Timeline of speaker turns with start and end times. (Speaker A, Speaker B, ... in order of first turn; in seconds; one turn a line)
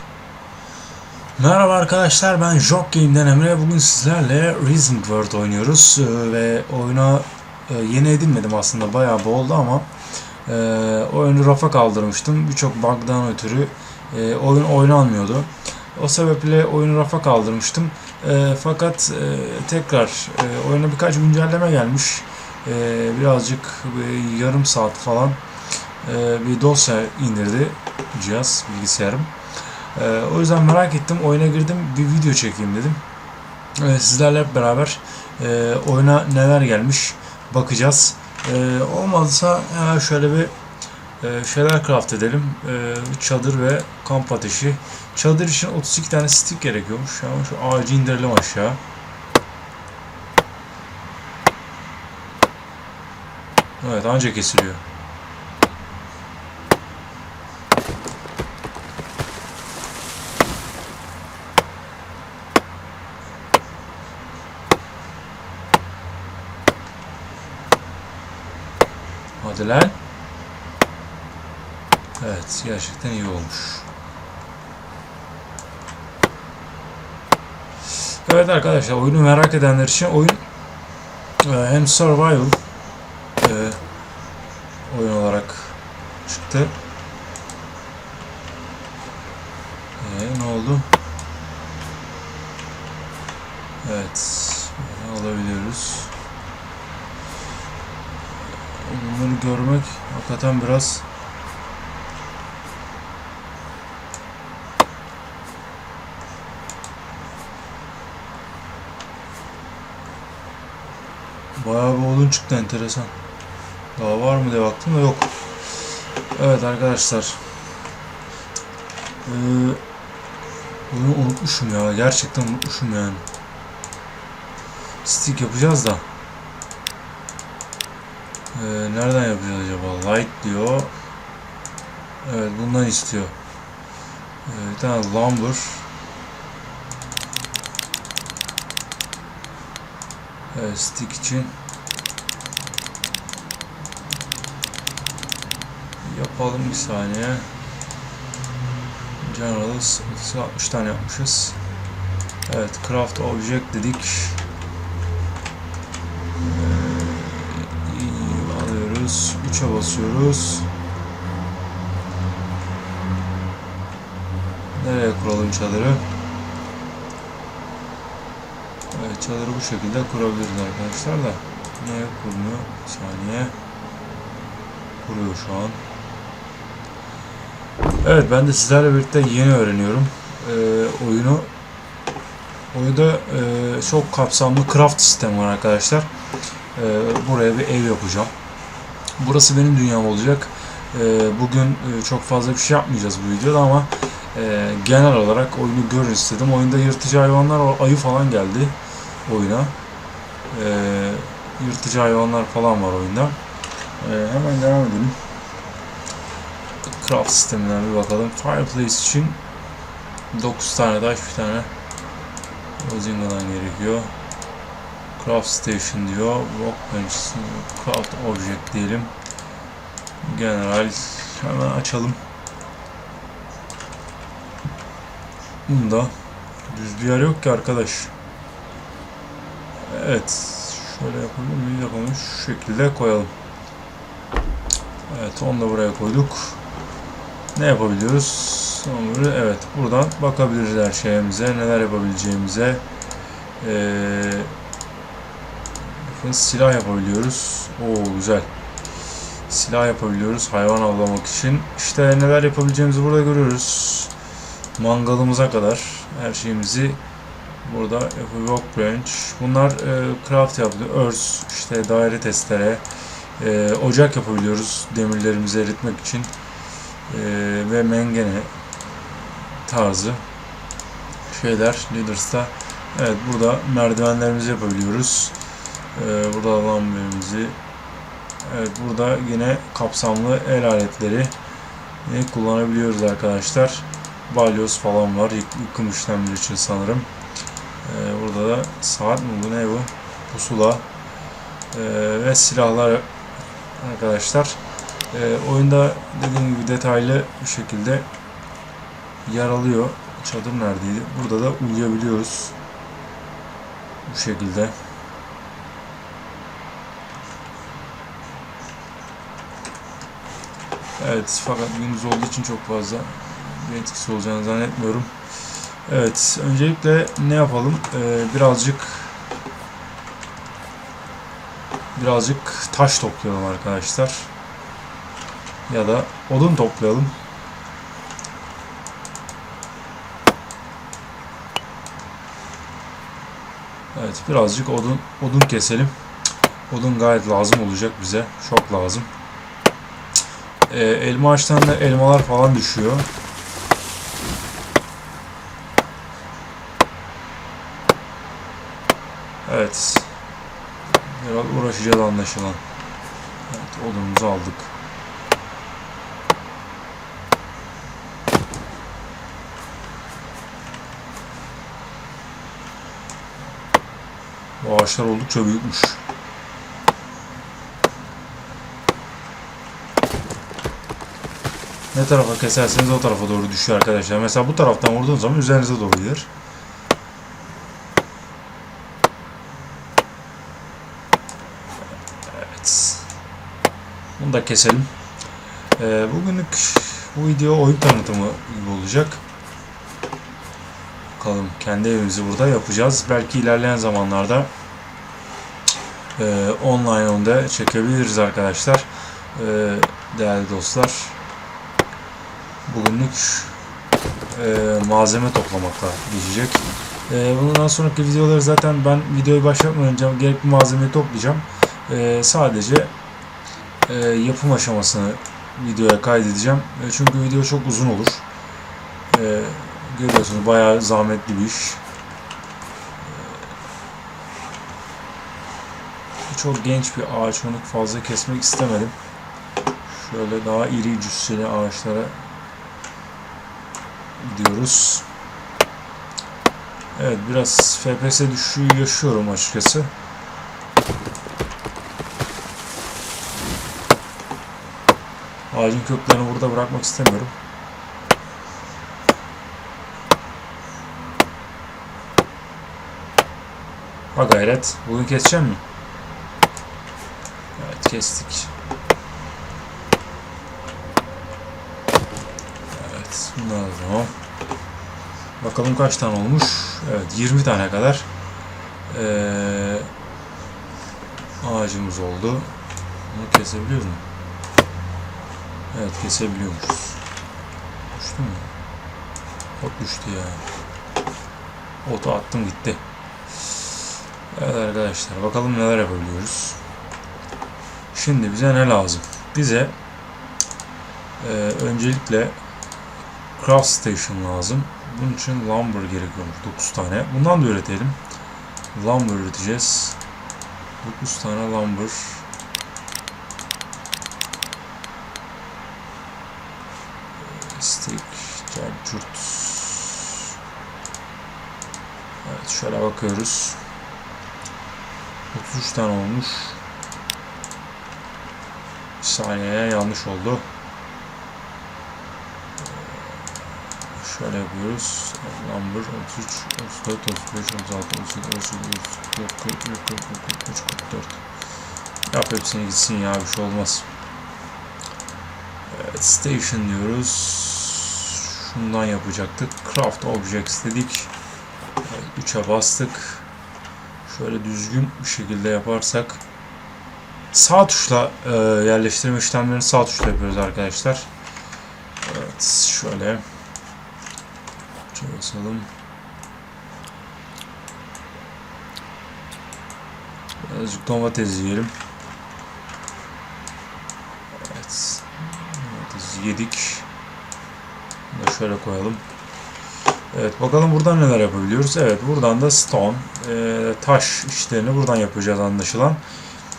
Speaker A: 1.4-9.9
Speaker A: 10.4-25.4
Speaker A: 26.0-33.0
Speaker A: 33.8-40.5
Speaker A: 41.2-48.8
Speaker A: 53.8-54.8
Speaker A: 69.4-70.0
Speaker A: 72.2-73.9
Speaker A: 78.1-80.4
Speaker A: 81.4-82.6
Speaker A: 83.4-83.8
Speaker A: 84.8-86.7
Speaker A: 90.0-90.9
Speaker A: 93.8-96.1
Speaker A: 98.5-101.0
Speaker A: 111.5-113.1
Speaker A: 114.0-115.3
Speaker A: 116.3-117.5
Speaker A: 119.2-119.8
Speaker A: 120.9-123.2
Speaker A: 125.0-126.0
Speaker A: 128.5-130.9
Speaker A: 132.2-133.3
Speaker A: 134.4-135.9
Speaker A: 140.5-141.5
Speaker A: 146.0-147.5
Speaker A: 149.2-151.6
Speaker A: 152.4-154.4
Speaker A: 156.4-160.7
Speaker A: 164.7-166.1
Speaker A: 168.9-173.5
Speaker A: 175.0-175.8
Speaker A: 178.0-181.5
Speaker A: 182.7-186.1
Speaker A: 186.7-188.3
Speaker A: 189.2-199.7
Speaker A: 200.5-203.4
Speaker A: 204.0-205.2
Speaker A: 206.8-209.4
Speaker A: 210.3-211.7
Speaker A: 212.8-214.1
Speaker A: 215.2-219.1
Speaker A: 220.2-222.2
Speaker A: 225.7-226.1
Speaker A: 226.7-228.1
Speaker A: 229.8-233.3
Speaker A: 235.1-236.6
Speaker A: 237.5-242.8
Speaker A: 243.6-244.5
Speaker A: 245.8-248.5
Speaker A: 249.5-254.1
Speaker A: 254.8-257.0
Speaker A: 257.6-262.8
Speaker A: 263.4-266.3
Speaker A: 267.1-270.2
Speaker A: 271.2-275.4
Speaker A: 275.9-277.6
Speaker A: 278.4-281.3
Speaker A: 282.0-287.1
Speaker A: 287.8-290.9
Speaker A: 291.7-293.1
Speaker A: 293.8-294.6
Speaker A: 295.1-298.1
Speaker A: 299.2-302.5
Speaker A: 304.0-304.7
Speaker A: 311.0-315.1
Speaker A: 315.7-319.2
Speaker A: 321.9-324.3
Speaker A: 325.7-327.1
Speaker A: 333.9-335.9
Speaker A: 336.7-339.1
Speaker A: 340.7-343.1
Speaker A: 349.4-350.1
Speaker A: 350.9-352.6
Speaker A: 353.5-354.7
Speaker A: 364.6-366.0
Speaker A: 371.9-376.3
Speaker A: 382.2-383.1
Speaker A: 384.2-384.9
Speaker A: 385.8-389.2
Speaker A: 391.2-394.5
Speaker A: 396.2-401.2
Speaker A: 402.6-403.6
Speaker A: 404.3-412.9
Speaker A: 413.9-418.2
Speaker A: 419.1-421.8
Speaker A: 423.0-423.5
Speaker A: 426.3-428.9
Speaker A: 429.9-432.2
Speaker A: 434.2-435.1
Speaker A: 436.9-439.9
Speaker A: 445.5-447.3
Speaker A: 454.1-455.6
Speaker A: 457.6-458.5
Speaker A: 462.7-464.1
Speaker A: 465.4-468.1
Speaker A: 468.9-469.9
Speaker A: 471.4-472.5
Speaker A: 473.1-474.0
Speaker A: 475.7-477.0
Speaker A: 477.9-478.5
Speaker A: 479.6-480.4
Speaker A: 481.8-482.8
Speaker A: 484.3-486.6
Speaker A: 487.9-489.8
Speaker A: 491.2-492.4
Speaker A: 493.4-498.0
Speaker A: 498.7-500.0
Speaker A: 500.8-502.2
Speaker A: 507.2-510.1
Speaker A: 512.2-513.6
Speaker A: 515.3-516.6
Speaker A: 519.0-520.5
Speaker A: 522.6-523.2
Speaker A: 523.9-531.2
Speaker A: 532.1-533.9
Speaker A: 535.7-541.1
Speaker A: 541.8-543.2
Speaker A: 544.0-546.2
Speaker A: 547.3-551.1
Speaker A: 552.0-553.2
Speaker A: 554.9-555.7
Speaker A: 560.4-561.7
Speaker A: 564.3-566.9
Speaker A: 568.1-569.0
Speaker A: 570.1-576.0